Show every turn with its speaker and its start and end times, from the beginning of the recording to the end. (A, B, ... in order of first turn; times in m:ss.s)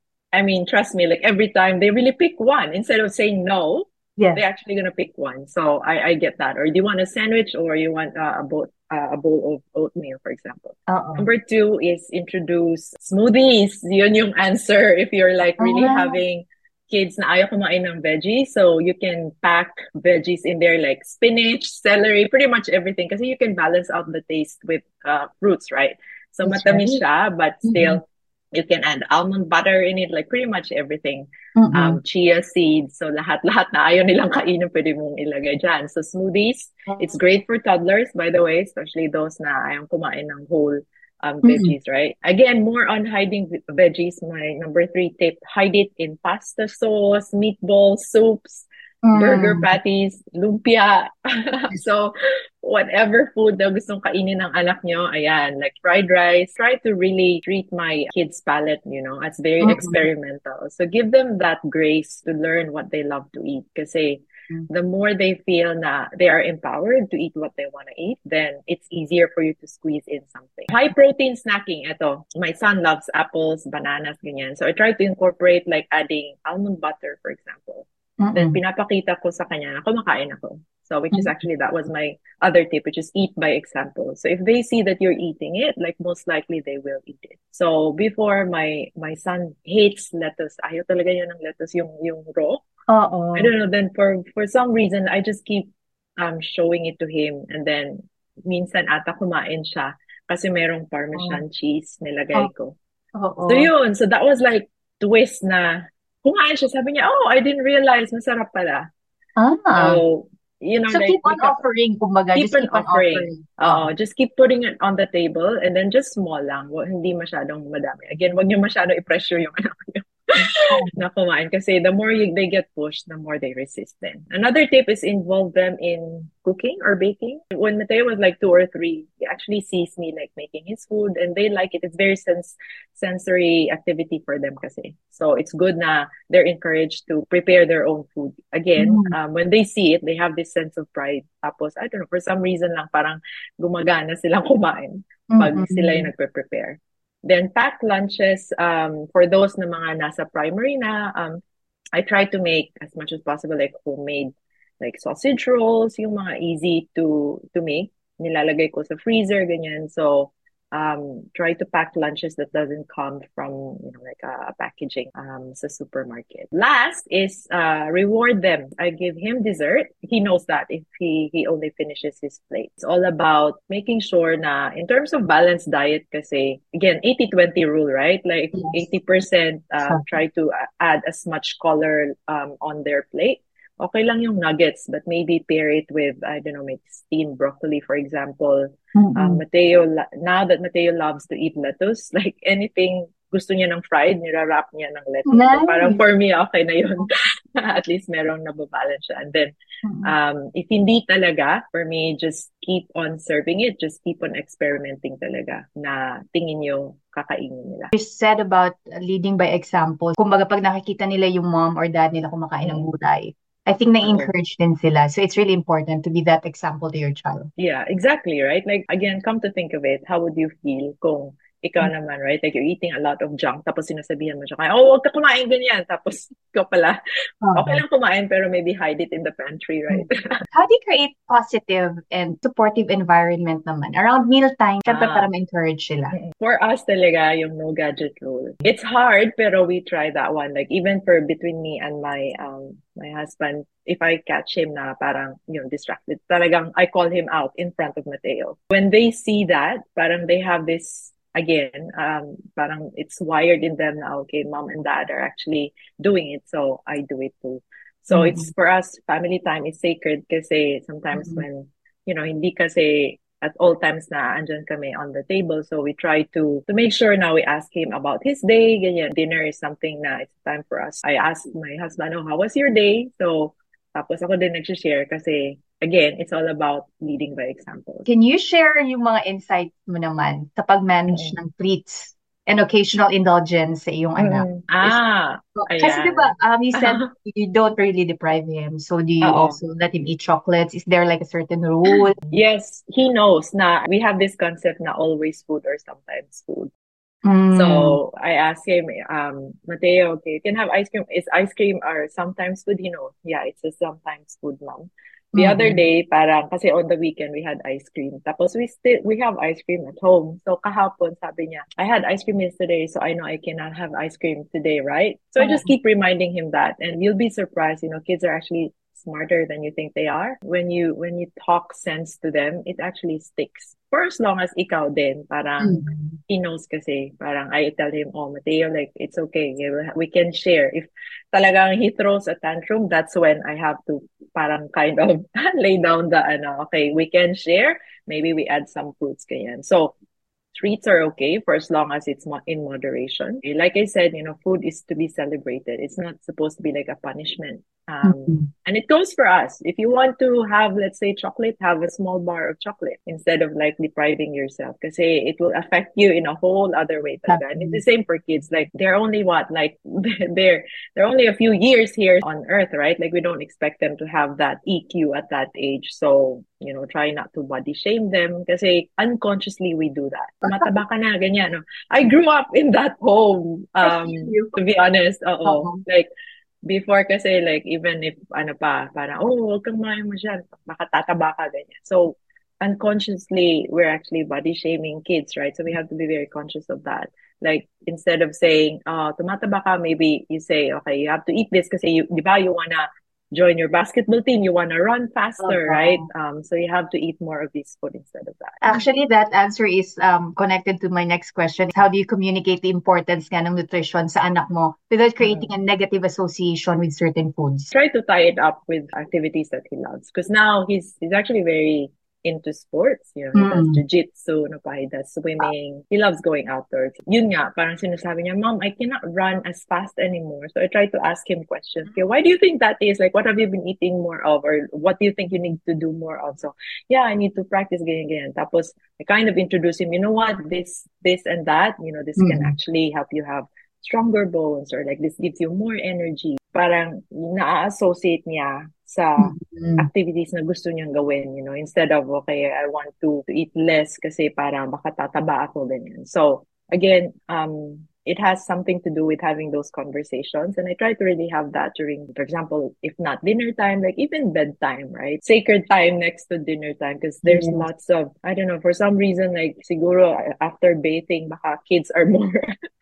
0:00.3-1:32.6 A
0:04.2-0:04.4 B
0:10.9-0:11.3 B
0:15.6-0:16.2 B
0:26.4-0:27.0 B
0:27.7-0:28.0 B
0:31.6-0:32.0 B
0:41.4-0:41.8 B
0:49.0-0:49.7 B
0:59.6-1:00.0 B
1:18.2-1:18.6 B
1:32.9-1:33.5 B
1:33.4-1:42.8 A
1:41.2-1:41.4 B
1:43.2-1:43.7 B
1:43.5-1:48.9 A
1:49.4-1:50.0 B
1:49.7-1:51.6 A
1:50.9-1:53.9 B
1:52.4-2:31.4 A
2:00.5-2:01.0 B
2:18.8-2:19.2 B
2:25.3-2:26.1 B
2:32.0-3:27.9 A
3:09.0-3:09.4 B
3:15.3-3:16.0 B
3:19.8-3:20.1 B
3:28.0-3:37.5 B
3:32.6-3:32.9 A
3:34.0-3:34.3 A
3:37.6-3:47.0 A
3:47.4-3:47.8 B
3:47.5-3:50.5 A
3:49.9-3:56.2 B
3:54.9-3:55.3 A
3:56.1-4:38.1 A
4:18.1-4:18.5 B
4:21.2-4:21.4 B
4:38.1-4:45.0 B
4:41.1-4:41.4 A
4:44.2-4:47.1 A
4:45.6-4:52.2 B
4:49.2-4:49.6 A
4:51.9-4:56.7 A
4:57.2-4:58.0 B
4:57.5-5:40.0 A
5:05.4-5:05.8 B
5:15.4-5:15.7 B
5:25.6-5:26.2 B
5:40.5-6:16.1 A
5:48.0-5:48.5 B
5:57.3-5:57.8 B
6:13.8-6:14.5 B
6:15.4-6:15.8 B
6:16.7-6:38.8 A
6:35.4-6:36.1 B
6:38.6-6:47.7 B
6:45.2-6:45.5 A
6:47.7-7:42.5 A
6:53.3-6:53.8 B
7:12.2-7:12.6 B
7:19.2-7:19.9 B
7:37.2-7:37.6 B